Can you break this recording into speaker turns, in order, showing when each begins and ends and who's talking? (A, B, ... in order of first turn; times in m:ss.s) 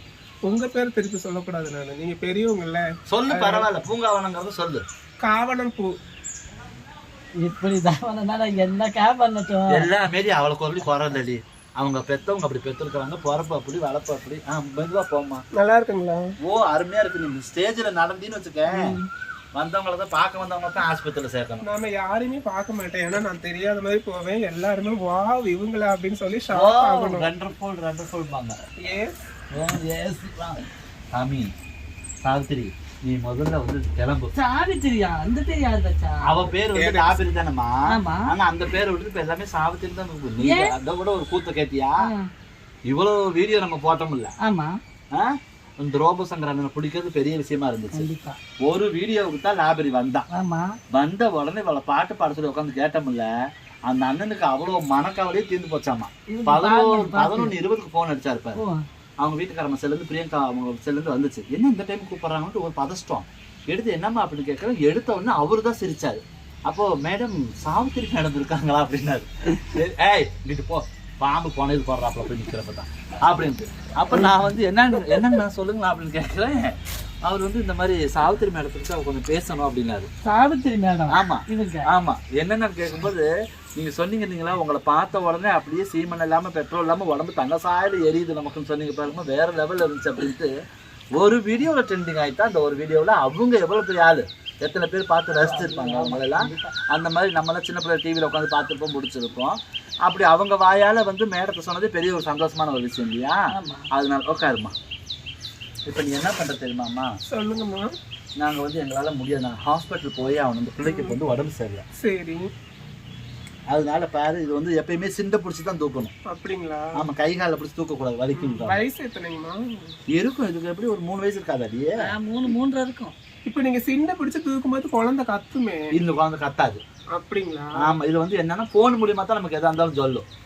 0:00.5-0:03.7 A
0:03.1-0:04.8 B
0:05.2-0:05.9 A
0:07.4-0:09.9 C
0:09.7-0:15.4 B
0:15.6-0:16.3 A
0:16.4-0:19.0 B
0:18.7-0:19.1 C
0:19.6-0:21.6 B
0:21.6-0:27.3 A
0:26.5-0:28.6 B
0:28.8-0:29.2 A
0:29.5-0:30.6 B
0:31.1-0:31.5 B
0:32.2-0:34.3 B
0:34.4-0:36.3 C
0:36.3-0:42.1 B
0:36.7-0:37.2 A
0:37.9-0:38.3 C
0:40.4-0:40.7 C
0:42.0-0:42.3 C
0:42.9-0:44.3 B
0:44.4-0:44.8 C
0:45.1-0:48.1 B
0:47.9-0:48.4 C
0:48.6-0:50.3 B
0:50.3-0:50.8 C
0:50.9-0:53.3 B
0:53.9-0:58.6 B
0:56.3-0:57.6 C
0:58.6-0:58.8 C
0:59.2-1:20.1 B
1:20.2-1:21.9 C
1:21.1-1:30.5 B
1:31.2-1:44.7 B
1:35.4-1:36.7 C
1:43.5-1:43.9 C
1:45.9-1:47.1 B
1:47.3-1:47.9 A
1:48.4-1:51.8 B
1:50.8-1:51.2 A
1:52.0-1:52.5 A
1:53.7-1:56.1 B
1:56.3-1:57.0 A
1:57.0-1:58.8 B
1:58.4-2:00.0 A
2:00.1-2:02.0 B
2:02.0-2:03.2 C
2:03.5-2:05.9 A
2:05.9-2:06.8 B
2:07.1-2:07.9 A
2:07.8-2:10.2 B